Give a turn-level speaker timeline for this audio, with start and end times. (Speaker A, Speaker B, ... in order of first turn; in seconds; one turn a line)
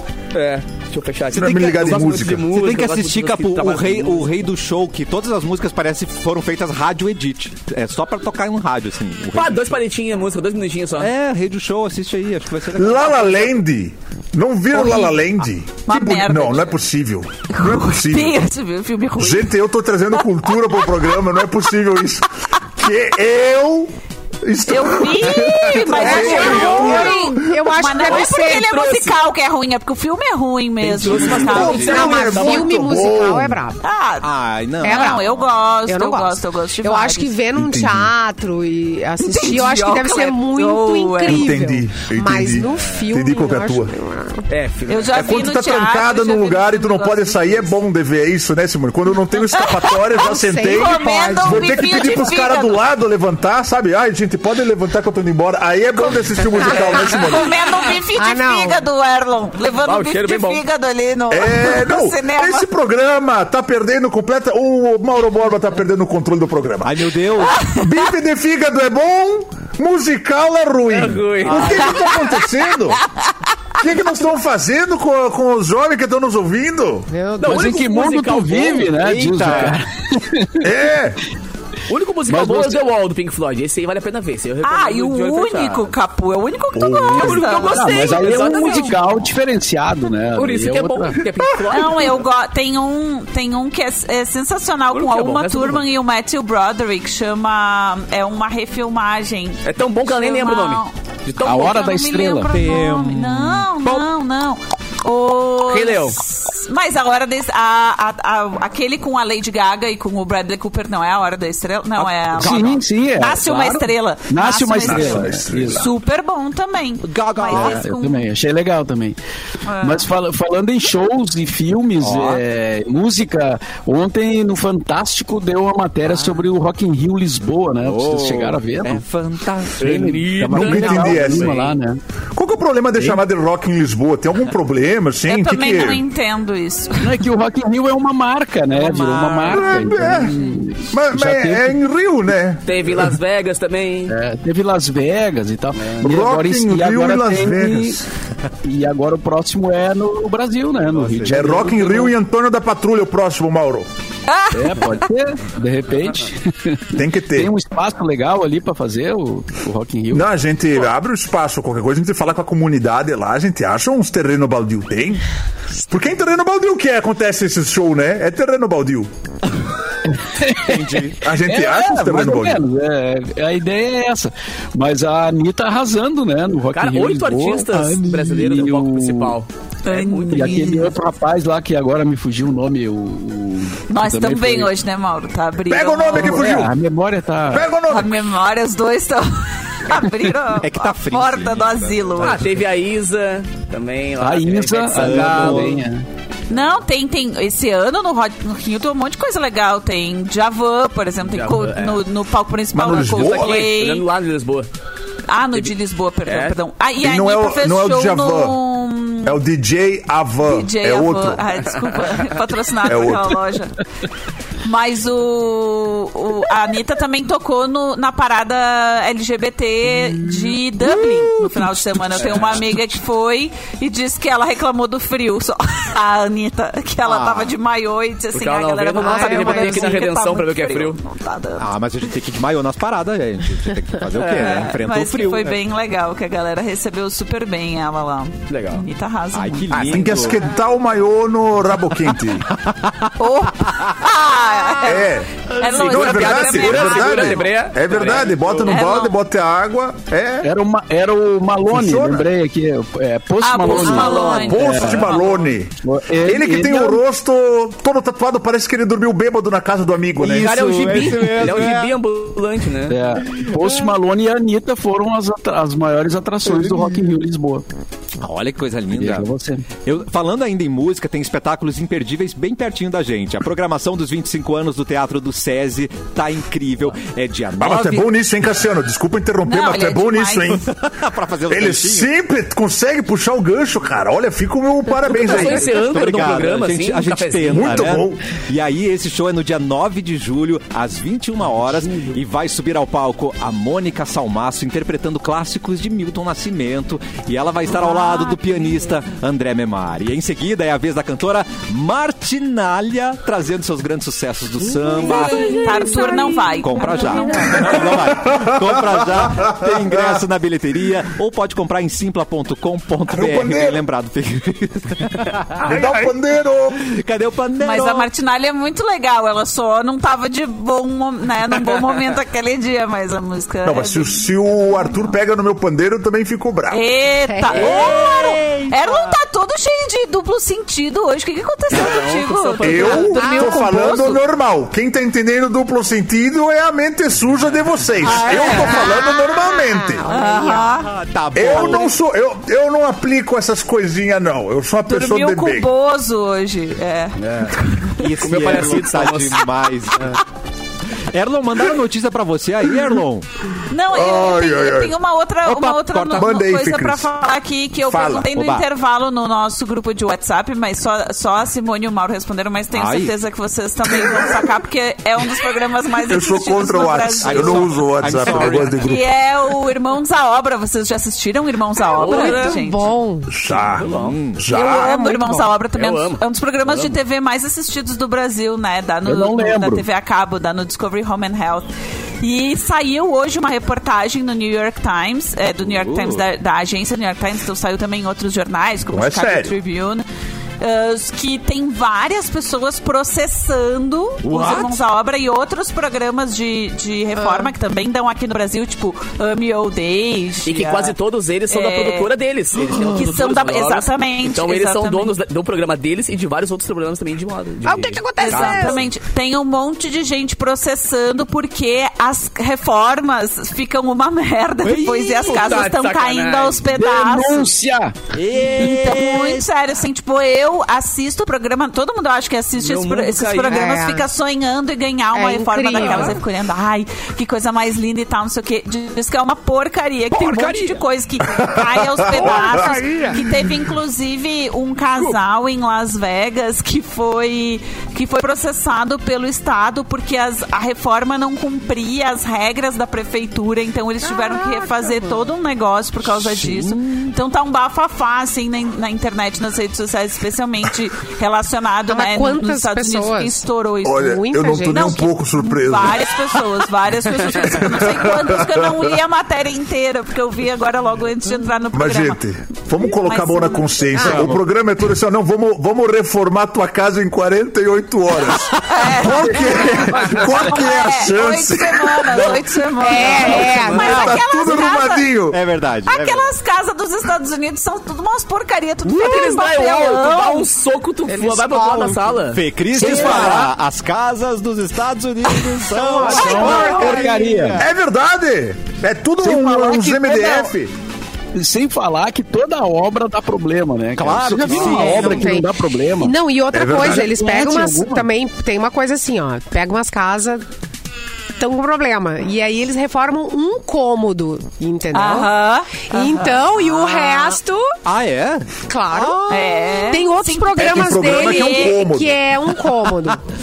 Speaker A: 0.3-4.3
Speaker B: 1.3-2.5
Speaker C: 2.4-9.8
Speaker A: 9.3-11.1
Speaker C: 11.0-13.3
Speaker B: 12.8-18.4
Speaker D: 14.7-15.2
Speaker D: 15.9-16.8
Speaker D: 17.5-19.5
Speaker B: 19.2-23.9
Speaker B: 24.4-27.3
Speaker D: 24.7-32.4
Speaker A: 25.9-27.1
Speaker E: 25.9-28.6
Speaker A: 28.0-29.2
Speaker A: 30.8-32.6
Speaker C: 31.0-31.7
Speaker B: 31.1-33.6
Speaker E: 31.8-33.8
Speaker D: 33.8-34.3
Speaker C: 34.2-35.4
Speaker E: 34.8-35.3
Speaker D: 34.8-37.4
Speaker E: 35.8-44.5
Speaker B: 37.5-38.1
Speaker D: 39.2-41.5
Speaker B: 41.2-43.9
Speaker A: 44.5-45.4
Speaker D: 44.9-47.7
Speaker B: 45.1-57.6
Speaker D: 49.5-50.1
Speaker E: 50.1-52.3
Speaker D: 50.6-52.8
Speaker D: 56.0-62.7
Speaker E: 58.1-58.8
Speaker A: 59.8-60.6
Speaker B: 61.3-67.0
Speaker C: 66.8-67.6
Speaker D: 67.5-68.0
Speaker B: 67.8-73.0
Speaker A: 70.9-72.1
Speaker D: 71.7-72.1
Speaker B: 73.8-77.1
Speaker E: 77.1-77.7
Speaker A: 77.4-79.0
Speaker F: 77.4-80.7
Speaker C: 79.0-79.8
Speaker B: 80.6-81.2
Speaker A: 81.9-86.0
Speaker F: 82.3-82.8
Speaker D: 84.6-89.1
Speaker B: 86.7-87.5
Speaker A: 87.2-89.0
Speaker F: 87.5-91.2
Speaker A: 90.3-92.2
Speaker D: 91.7-118.2
Speaker A: 94.9-95.9
Speaker A: 99.6-102.0
Speaker F: 101.4-102.5
Speaker C: 102.5-103.7
Speaker A: 105.7-106.2
Speaker C: 112.0-112.8
Speaker F: 112.4-115.8
Speaker B: 114.8-115.9
Speaker C: 117.0-117.9
Speaker F: 117.5-119.2
Speaker D: 119.7-120.1
Speaker F: 119.8-129.0
Speaker C: 122.0-122.4
Speaker C: 127.8-129.9
Speaker A: 129.8-131.8
Speaker F: 129.8-132.0
Speaker B: 130.5-131.7
Speaker B: 132.3-136.1
Speaker F: 133.0-133.2
Speaker D: 135.3-137.2
Speaker F: 137.0-141.8
Speaker C: 138.7-139.7
Speaker B: 139.5-140.4
Speaker B: 140.9-142.6
Speaker A: 142.7-144.2
Speaker F: 144.1-148.0
Speaker B: 146.0-148.0
Speaker F: 148.6-152.1
Speaker C: 150.8-151.5
Speaker B: 151.2-153.9
Speaker D: 154.3-155.1
Speaker F: 154.5-160.3
Speaker B: 156.9-157.5
Speaker B: 160.1-165.2
Speaker B: 165.7-169.1
Speaker F: 170.1-170.9
Speaker C: 170.6-171.2
Speaker B: 171.2-172.6
Speaker F: 171.4-179.4
Speaker A: 176.7-180.7
Speaker D: 179.8-180.9
Speaker F: 180.3-184.7
Speaker D: 183.9-186.4
Speaker B: 185.7-186.7
Speaker F: 186.1-187.7
Speaker B: 187.4-188.2
Speaker D: 187.8-192.5
Speaker C: 190.6-192.4
Speaker A: 192.2-195.8
Speaker F: 194.2-196.0
Speaker C: 194.9-195.8
Speaker D: 196.5-204.0
Speaker A: 201.2-202.0
Speaker B: 202.7-203.7
Speaker A: 202.8-204.7
Speaker D: 205.3-209.4
Speaker A: 206.2-206.6
Speaker B: 207.0-208.6
Speaker B: 209.2-211.4
Speaker D: 210.4-213.8
Speaker B: 212.8-213.4
Speaker D: 214.6-231.7
Speaker C: 227.1-227.5
Speaker A: 228.3-231.0
Speaker E: 229.0-230.1
Speaker C: 231.6-235.5
Speaker A: 234.2-234.7
Speaker D: 234.3-239.8
Speaker A: 238.5-238.8
Speaker C: 239.3-240.4
Speaker A: 239.7-240.0
Speaker B: 239.9-242.5
Speaker C: 242.6-243.1
Speaker D: 243.2-247.5
Speaker B: 244.8-250.5
Speaker A: 245.6-248.8
Speaker D: 248.7-249.2
Speaker F: 250.4-255.1
Speaker B: 251.7-252.3
Speaker D: 253.4-255.3
Speaker A: 253.7-255.5
Speaker B: 254.3-260.9
Speaker F: 255.8-257.0
Speaker C: 260.2-261.9
Speaker A: 260.2-263.0
Speaker F: 262.9-267.6
Speaker C: 266.5-266.9
Speaker C: 268.2-269.3
Speaker F: 268.9-269.6
Speaker C: 269.8-278.1
Speaker B: 277.6-280.7
Speaker D: 279.4-280.6
Speaker C: 280.6-282.1
Speaker B: 281.5-285.8
Speaker A: 285.1-288.0
Speaker C: 285.3-305.6
Speaker B: 287.5-288.2
Speaker D: 297.7-298.6
Speaker D: 305.1-307.8
Speaker E: 305.2-307.6
Speaker C: 306.6-315.7
Speaker B: 307.6-310.2
Speaker B: 313.1-313.8
Speaker A: 315.6-316.1
Speaker B: 315.6-316.9
Speaker C: 316.8-318.1
Speaker D: 317.6-324.3
Speaker B: 323.6-326.8
Speaker D: 326.7-334.2
Speaker E: 327.2-327.6
Speaker A: 327.5-328.0
Speaker C: 327.6-329.1
Speaker A: 331.7-333.3
Speaker B: 332.6-340.1
Speaker E: 333.1-333.5
Speaker C: 338.0-338.9
Speaker D: 338.2-338.9
Speaker E: 338.5-340.7
Speaker D: 340.1-340.9
Speaker C: 340.7-341.9
Speaker B: 341.3-345.7
Speaker D: 344.9-347.9
Speaker C: 348.0-350.2
Speaker A: 348.2-349.4
Speaker C: 351.1-353.3
Speaker D: 353.7-367.8
Speaker B: 353.9-354.9
Speaker C: 355.4-356.4
Speaker B: 356.1-357.1
Speaker B: 357.9-358.3
Speaker C: 358.3-358.6
Speaker C: 362.7-363.1
Speaker B: 363.9-364.3
Speaker B: 366.1-369.0
Speaker C: 367.2-369.0
Speaker D: 368.3-372.9
Speaker A: 371.9-372.6
Speaker E: 372.0-373.3
Speaker B: 373.3-375.1
Speaker A: 373.6-374.2
Speaker C: 373.8-374.4
Speaker D: 374.5-381.7
Speaker A: 375.0-377.0
Speaker F: 379.0-379.8
Speaker D: 382.2-390.0
Speaker C: 385.6-386.2
Speaker B: 388.9-389.5
Speaker D: 390.6-400.9
Speaker C: 394.2-394.8
Speaker A: 400.4-408.9
Speaker D: 401.5-402.1
Speaker D: 402.6-405.1
Speaker E: 407.6-408.8
Speaker D: 408.2-417.5
Speaker A: 414.6-416.7
Speaker F: 416.7-418.0
Speaker C: 418.2-419.4
Speaker D: 418.4-454.1
Speaker A: 422.6-423.7
Speaker E: 423.5-424.1
Speaker E: 425.1-426.2
Speaker A: 425.8-426.1
Speaker C: 430.1-430.8
Speaker B: 431.3-432.6
Speaker E: 432.1-433.2
Speaker E: 451.9-455.0
Speaker B: 453.8-456.4
Speaker D: 454.7-462.2
Speaker B: 457.2-458.9
Speaker B: 461.7-475.4
Speaker D: 462.8-464.3
Speaker D: 468.7-469.7
Speaker F: 469.9-470.3
Speaker D: 470.3-475.2
Speaker E: 472.8-474.1
Speaker C: 475.3-476.2
Speaker D: 475.9-480.5
Speaker A: 478.8-483.4
Speaker E: 481.1-482.0
Speaker C: 482.3-487.7
Speaker B: 482.8-483.4
Speaker F: 482.8-483.5
Speaker F: 485.8-487.6
Speaker E: 486.3-486.8
Speaker B: 487.6-490.7
Speaker F: 489.2-490.5
Speaker F: 491.3-496.1
Speaker C: 494.0-495.4
Speaker E: 494.5-500.4
Speaker B: 496.5-497.1
Speaker F: 496.7-498.1
Speaker E: 501.4-505.3
Speaker D: 504.9-507.3
Speaker E: 505.9-507.7
Speaker C: 507.8-509.6
Speaker E: 508.7-513.2
Speaker D: 509.3-511.8
Speaker B: 510.6-512.2